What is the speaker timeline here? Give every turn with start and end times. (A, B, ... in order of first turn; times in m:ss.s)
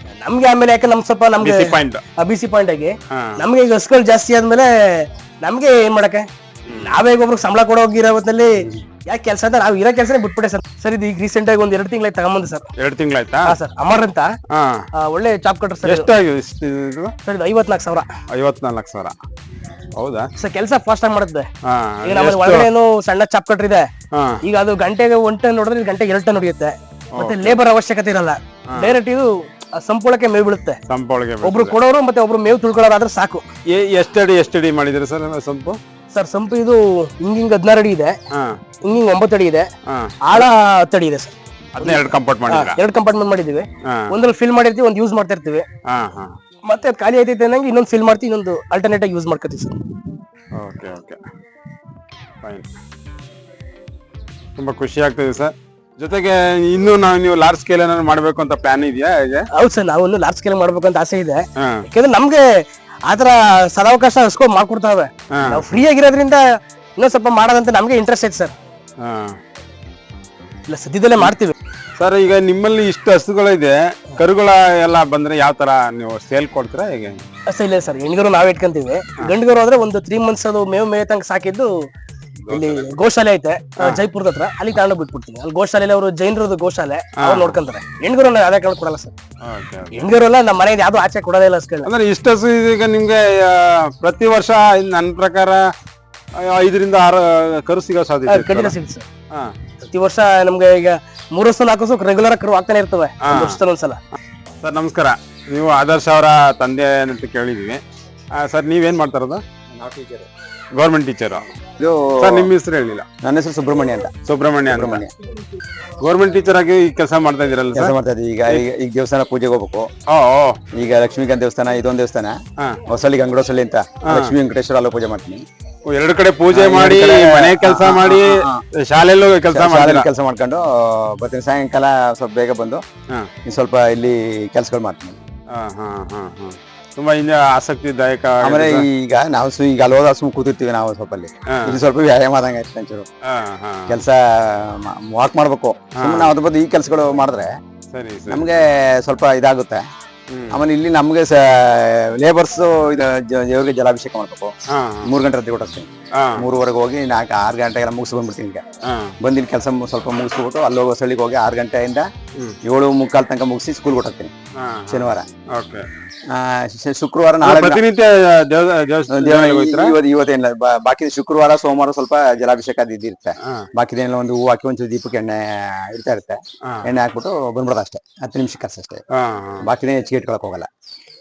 0:00.2-0:12.7 A
0:01.4-0:02.0 B
0:03.1-0:03.4 B
0:06.7-0:07.0 B
0:12.8-0:13.6 B
0:13.5-0:14.3 A
0:14.5-0:14.9 B
0:15.0-0:16.1 A
0:15.8-0:17.1 B
0:17.2-0:18.1 A
0:18.3-0:19.2 B
0:20.0-0:20.3 B
0:20.4-0:21.5 A
0:21.6-0:22.7 B
0:22.0-0:23.9 A
0:24.1-0:24.4 B
0:24.4-0:30.8 A
0:27.2-0:27.6 B
0:28.7-0:29.0 B
0:30.9-0:31.8 B
0:31.4-0:33.4 A
0:33.7-0:35.8 B
0:36.1-0:38.2 A
0:38.3-0:38.6 B
0:38.8-0:39.7 A
0:39.9-0:40.2 B
0:40.2-0:45.7 A
0:41.8-0:42.8 B
0:45.9-0:46.4 B
0:46.7-0:49.8 A
0:50.6-0:51.2 B
0:52.4-0:52.8 B
0:54.6-0:59.5 B
0:59.5-1:06.4 A
1:01.6-1:01.8 B
1:05.3-1:05.7 B
1:07.0-1:08.5 A
1:09.0-1:09.4 B
1:10.7-1:11.6 A
1:12.0-1:17.2 B
1:17.5-1:21.7 A
1:22.4-1:22.9 B
1:22.5-1:29.1 A
1:27.2-1:27.6 B
1:29.4-1:30.1 B
1:29.9-1:31.9 A
1:31.9-1:35.7 B
1:36.4-1:38.7 B
1:38.3-1:39.1 A
1:39.8-1:44.0 A
1:43.2-1:43.6 B
1:44.6-1:47.8 B
1:48.4-1:49.4 B
1:49.7-1:50.3 C
1:50.8-1:51.5 B
1:51.8-1:52.5 C
1:52.2-1:53.1 B
1:53.2-1:54.1 C
1:54.3-1:55.1 B
1:54.7-1:55.1 C
1:56.0-1:57.9 B
1:57.8-1:59.9 C
2:00.1-2:00.6 B
2:00.7-2:05.4 C
2:04.0-2:04.4 B
2:05.9-2:10.1 B
2:06.5-2:08.6 C
2:09.5-2:12.8 C
2:13.4-2:15.2 C
2:15.5-2:18.9 B
2:18.4-2:23.1 C
2:21.5-2:21.8 B
2:23.3-2:24.0 B
2:23.9-2:27.6 C
2:26.0-2:26.3 B
2:27.9-2:28.6 B
2:28.3-2:29.8 C
2:30.3-2:30.6 B
2:30.5-2:34.5 C
2:34.7-2:35.1 B
2:35.0-2:38.6 C
2:36.2-2:36.5 B
2:38.9-2:39.2 B
2:39.2-2:42.1 C
2:42.6-2:44.3 C
2:44.6-2:45.9 B
2:44.9-2:45.3 C
2:46.3-2:47.8 C
2:47.4-2:49.9 B
2:49.1-2:59.0 C
2:56.6-2:56.9 B
2:59.1-2:59.7 B
2:59.6-3:00.7 C